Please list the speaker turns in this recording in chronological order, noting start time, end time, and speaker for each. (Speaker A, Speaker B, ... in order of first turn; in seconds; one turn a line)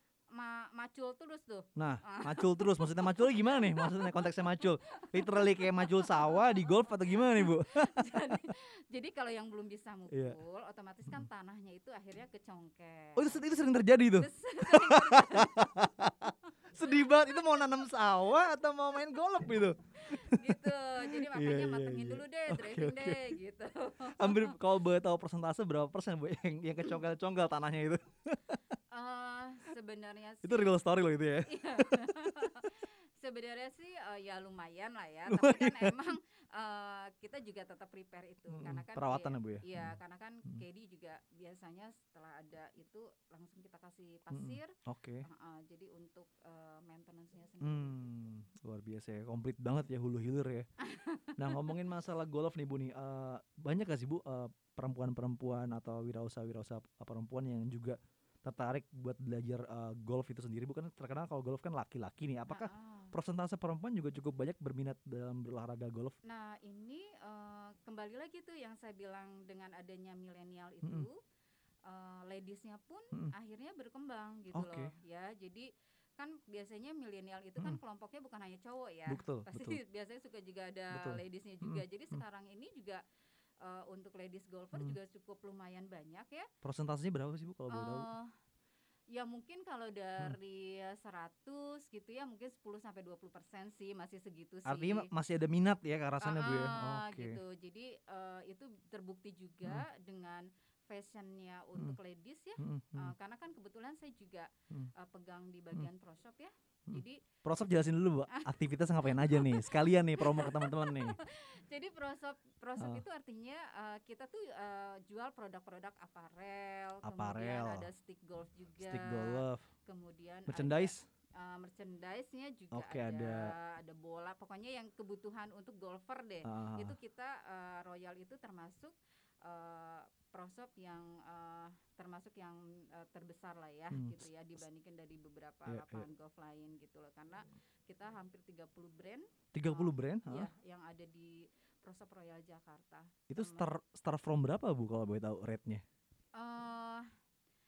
Speaker A: 0.3-13.4
Speaker B: 1.8-8.2
Speaker B: 10.1-10.4
Speaker B: 13.2-23.4
Speaker A: 14.2-16.3
Speaker A: 16.9-17.6
Speaker A: 20.0-24.6
Speaker B: 24.1-28.6
Speaker A: 28.9-30.8
Speaker B: 30.4-32.2
Speaker A: 31.4-48.0
Speaker B: 35.3-36.1
Speaker B: 38.5-40.6
Speaker B: 44.3-45.2
Speaker B: 47.6-50.7
Speaker A: 50.8-51.7
Speaker B: 51.4-66.2
Speaker A: 62.5-63.1
Speaker A: 66.2-71.2
Speaker A: 71.9-83.0
Speaker B: 74.5-74.9
Speaker B: 79.1-79.8
Speaker B: 80.9-82.2
Speaker A: 83.6-86.5
Speaker B: 86.6-88.1
Speaker A: 87.7-88.3
Speaker A: 89.1-95.1
Speaker B: 94.7-97.4
Speaker A: 96.2-107.2
Speaker B: 102.6-103.1
Speaker B: 106.9-111.2
Speaker A: 108.3-143.7
Speaker B: 112.8-113.0
Speaker B: 117.0-117.9
Speaker B: 118.8-119.7
Speaker B: 120.5-121.1
Speaker B: 122.7-123.5
Speaker B: 126.4-127.0
Speaker B: 133.9-134.3
Speaker B: 135.7-136.1
Speaker B: 139.5-140.5
Speaker B: 143.3-145.8
Speaker A: 146.4-147.1